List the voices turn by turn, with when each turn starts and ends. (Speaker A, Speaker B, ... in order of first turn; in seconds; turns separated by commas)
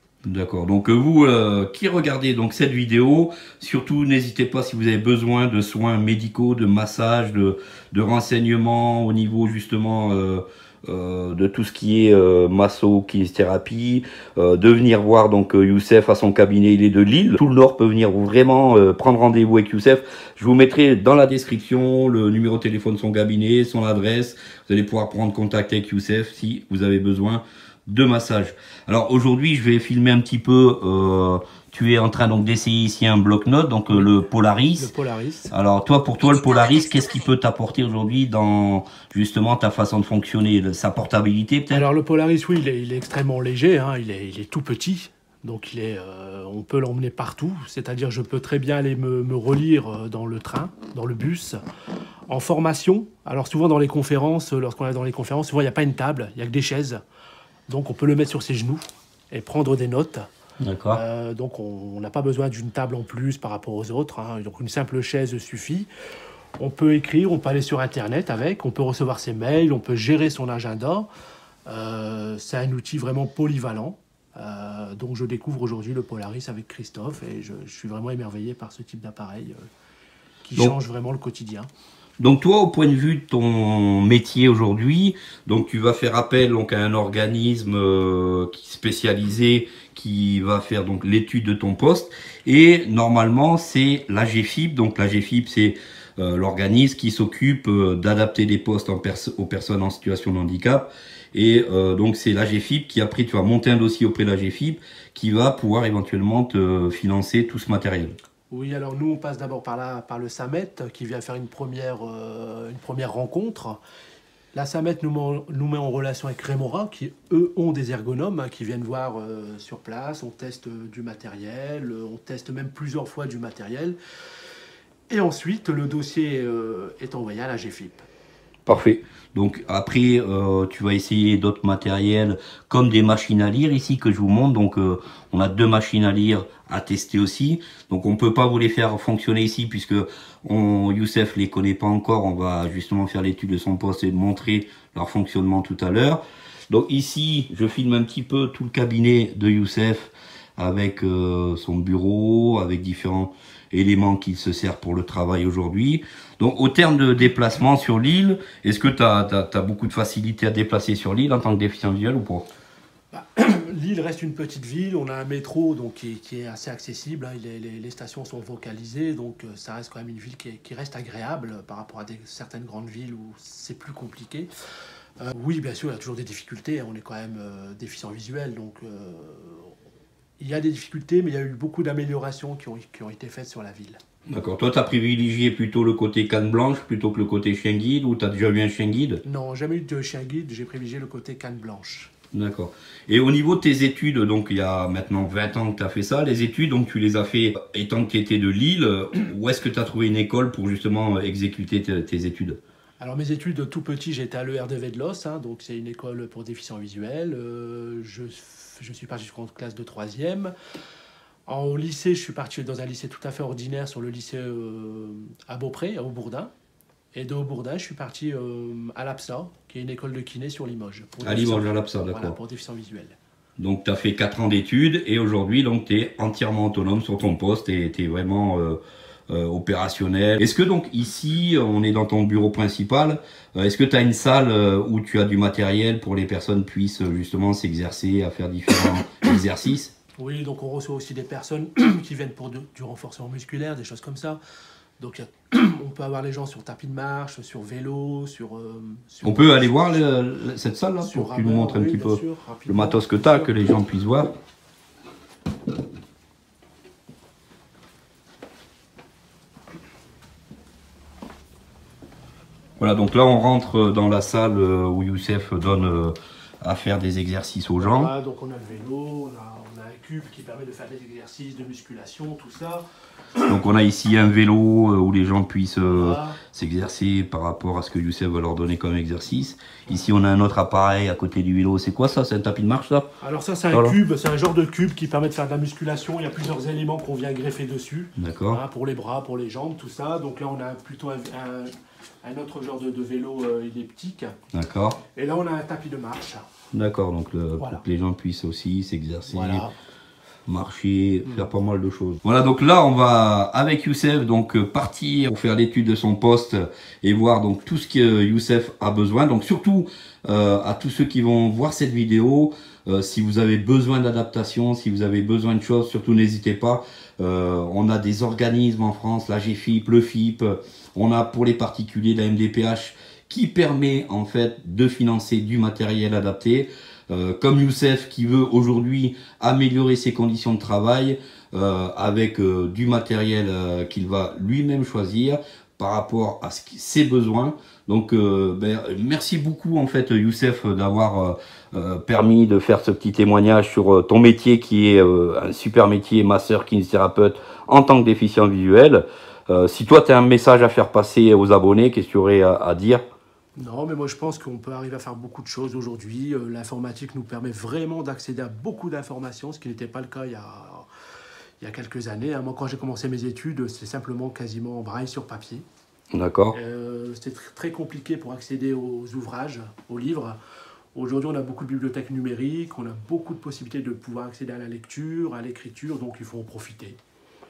Speaker A: 0.2-34.9, Speaker B: 34.8-35.5, Speaker A: 35.5-41.9, Speaker B: 41.7-51.6, Speaker B: 52.3-57.0, Speaker B: 57.7-60.3, Speaker A: 60.6-61.0, Speaker B: 60.9-65.9, Speaker B: 66.6-71.1, Speaker B: 71.7-79.6, Speaker B: 80.4-81.7, Speaker A: 82.2-108.2, Speaker B: 108.5-113.8, Speaker B: 114.5-124.0, Speaker B: 125.1-128.1, Speaker A: 128.7-162.5, Speaker B: 163.1-174.5, Speaker B: 175.2-179.7, Speaker B: 180.4-184.0, Speaker A: 184.3-189.2, Speaker B: 189.2-192.1, Speaker A: 192.3-202.6, Speaker B: 203.0-210.5, Speaker B: 211.5-216.5, Speaker B: 217.1-223.2, Speaker A: 221.2-222.3, Speaker A: 223.6-239.9, Speaker B: 240.2-244.4, Speaker B: 245.0-250.0, Speaker A: 249.2-254.3, Speaker B: 251.0-253.6, Speaker A: 262.8-268.1, Speaker B: 267.8-272.8, Speaker A: 273.4-283.1, Speaker B: 275.9-276.4, Speaker B: 283.2-291.7, Speaker A: 283.7-284.0, Speaker A: 288.2-288.6, Speaker B: 292.2-294.3, Speaker A: 294.5-295.0, Speaker B: 295.1-296.4, Speaker A: 296.7-299.6, Speaker B: 297.6-297.8, Speaker B: 299.3-299.7, Speaker A: 300.5-353.0, Speaker B: 353.6-360.9, Speaker B: 361.6-365.6, Speaker A: 366.1-366.6, Speaker B: 366.5-370.4, Speaker B: 370.9-377.0